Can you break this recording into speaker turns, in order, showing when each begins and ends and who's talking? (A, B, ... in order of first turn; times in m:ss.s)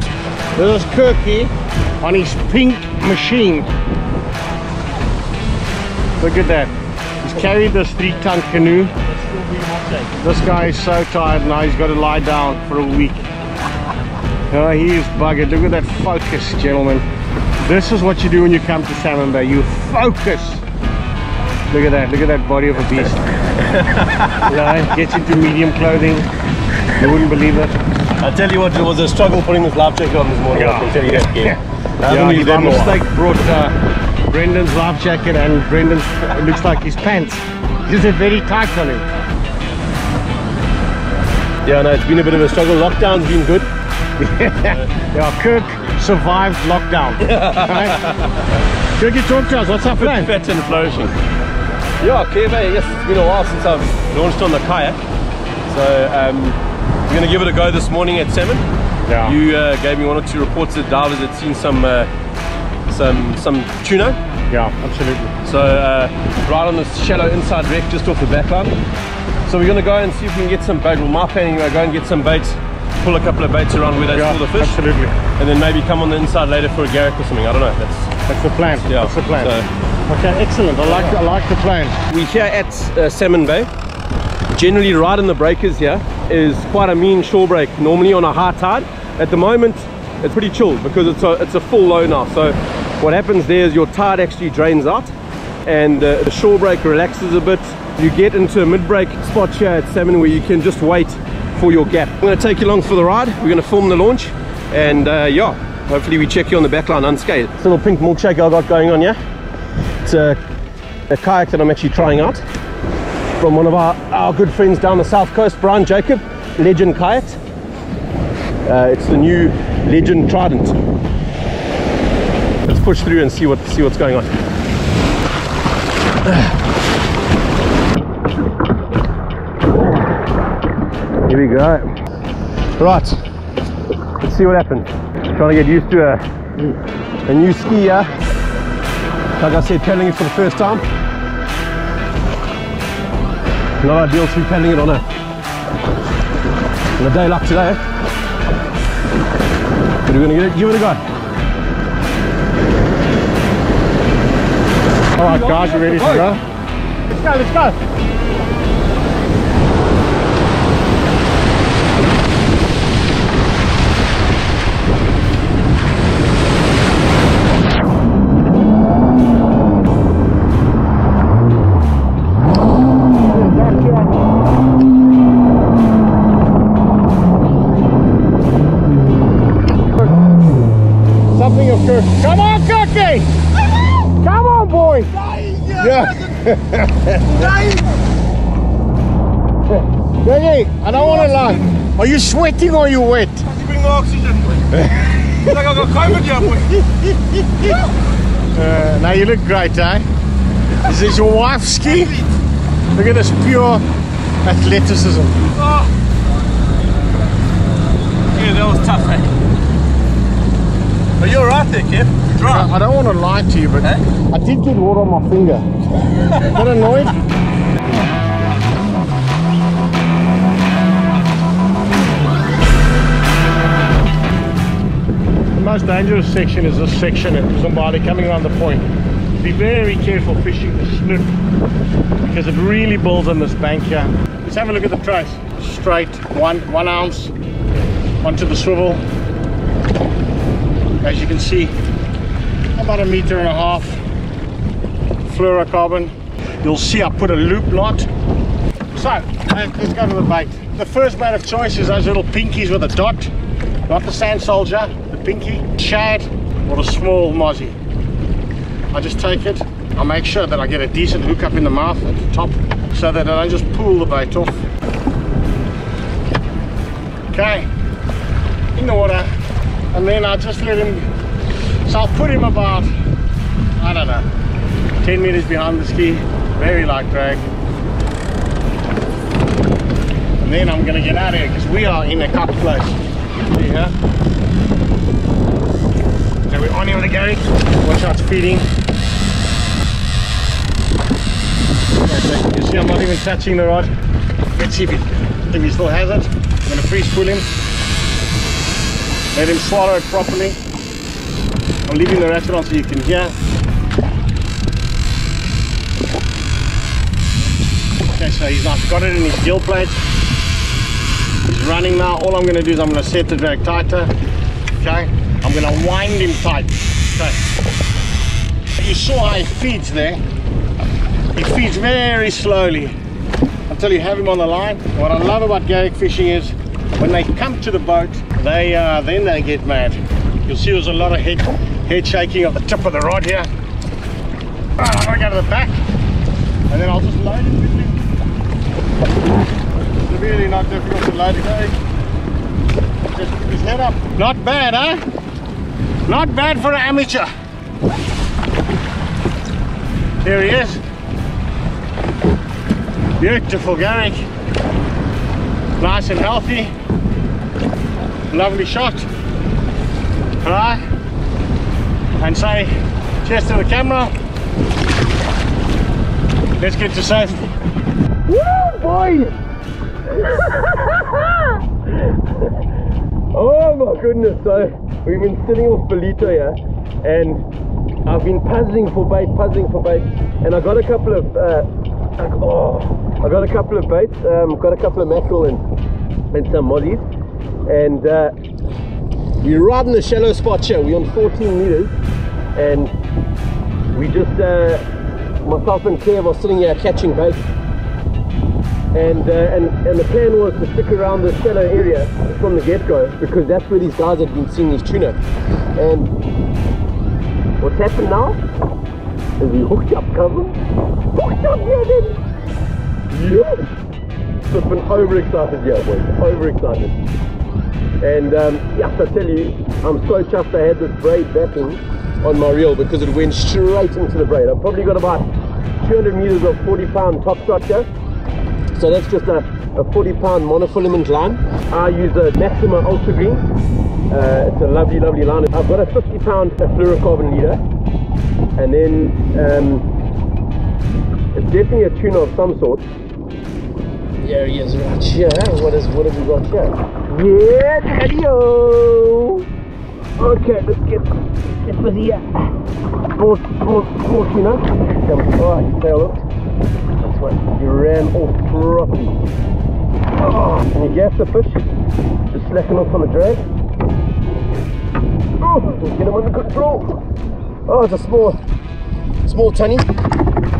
0:00.6-0:03.7 A
0:06.2-0:06.7 A
0:07.2-0:08.9 A
0:09.4-0:10.0 B
0:10.1-0:13.3 A
0:14.5-0:17.0 A
0:17.6-0:20.6 A
0:21.7-0:23.2 A
0:23.5-0:24.5 B
0:24.4-0:26.3 A
0:27.0-0:27.7 A
0:28.2-0:33.1 B
0:30.5-0:31.6 A
0:32.1-0:33.7 A
0:34.3-0:39.0 A
0:41.6-0:43.7 B
0:44.2-0:48.0 A
0:47.3-0:48.2 B
0:49.0-0:50.3 A
0:50.0-0:51.1 B
0:52.0-0:55.0 B
0:55.7-0:58.6 B
0:59.1-0:59.4 A
0:59.2-1:02.1 B
1:02.9-1:04.2 B
1:04.5-1:05.3 A
1:05.4-1:08.8 B
1:09.5-1:14.8 B
1:14.1-1:15.2 A
1:15.4-1:18.1 B
1:18.3-1:19.5 A
1:18.8-1:19.7 B
1:20.1-1:22.0 A
1:22.1-1:23.7 B
1:24.5-1:35.1 B
1:35.7-1:49.2 B
1:50.0-1:50.4 B
1:51.1-1:52.4 B
1:53.4-1:57.4 B
1:58.6-2:00.8 B
2:02.6-2:04.3 B
2:11.3-2:11.9 B
2:12.8-2:13.2 B
2:14.2-2:16.2 B
2:17.3-2:18.2 B
2:19.4-2:20.8 B
2:23.8-2:25.0 B
2:27.0-2:27.8 B
2:30.0-2:31.0 B
2:35.2-2:36.4 A
2:35.3-2:36.2 B
2:37.1-2:37.8 A
2:53.3-2:54.1 A
3:01.3-3:03.3 A
3:04.2-3:05.1 A
3:05.2-3:06.4 B
3:05.8-3:07.6 A
3:07.3-3:07.8 B
3:10.2-3:13.5 A
3:13.5-3:16.8 B
3:16.6-3:17.5 A
3:18.5-3:20.1 A
3:20.8-3:22.2 A
3:22.9-3:23.8 A
3:24.4-3:25.4 A
3:25.6-3:25.9 B
3:28.3-3:29.3 B
3:31.2-3:32.7 B
3:32.5-3:35.7 A
3:36.2-3:36.5 B
3:36.4-3:37.2 A
3:45.6-3:48.9 A
3:49.4-3:51.3 A
3:52.2-3:57.3 A
3:58.2-3:59.0 A
4:01.0-4:01.8 A
4:02.8-4:04.0 A
4:05.2-4:08.1 A
4:08.9-4:13.3 A
4:13.9-4:17.8 A
4:18.9-4:24.6 A
4:27.3-4:27.7 A
4:28.8-4:29.3 A
4:29.9-4:31.1 A
4:31.8-4:32.9 A
4:33.8-4:34.3 A
4:35.0-4:37.4 A
4:40.4-4:43.9 A
4:46.5-4:48.7 A
4:52.0-4:53.9 A
4:54.6-4:57.5 A
4:59.3-5:00.6 A
5:01.9-5:03.4 A
5:08.1-5:10.0 A
5:11.4-5:14.1 A
5:14.8-5:17.4 A
5:18.8-5:20.2 A
5:21.4-5:23.0 A
5:23.7-5:33.5 A
5:34.8-5:35.8 A
5:36.7-5:38.0 A
5:40.1-5:41.8 A
5:43.1-5:45.0 A
5:46.1-5:47.3 A
5:50.2-5:50.8 A
5:53.2-5:54.2 A
5:55.8-5:56.7 A
5:58.3-5:59.1 A
6:00.4-6:00.8 A
6:02.2-6:02.7 A
6:03.2-6:04.1 A
6:06.6-6:07.5 A
6:08.3-6:09.4 B
6:10.2-6:12.5 B
6:13.3-6:17.4 B
6:18.0-6:25.6 B
6:26.3-6:27.0 B
6:27.7-6:28.3 B
6:29.4-6:31.9 B
6:32.6-6:32.9 B
6:33.9-6:34.9 B
6:35.4-6:37.4 B
6:38.9-6:45.2 B
6:45.8-6:46.1 B
6:47.6-6:48.4 B
6:49.4-6:50.6 B
6:51.1-6:52.2 B
6:53.1-6:53.7 B
6:54.5-6:57.0 B
6:58.0-7:05.3 B
7:05.8-7:07.9 B
7:08.7-7:13.4 B
7:14.1-7:17.6 B
7:18.6-7:19.9 B
7:21.3-7:22.9 B
7:24.2-7:29.5 B
7:30.2-7:31.1 B
7:31.6-7:32.5 B
7:33.1-7:36.2 B
7:37.0-7:39.2 B
7:40.2-7:41.6 B
7:42.3-7:43.4 B
7:45.4-7:47.0 B
7:47.7-7:48.4 B
7:49.2-7:49.9 B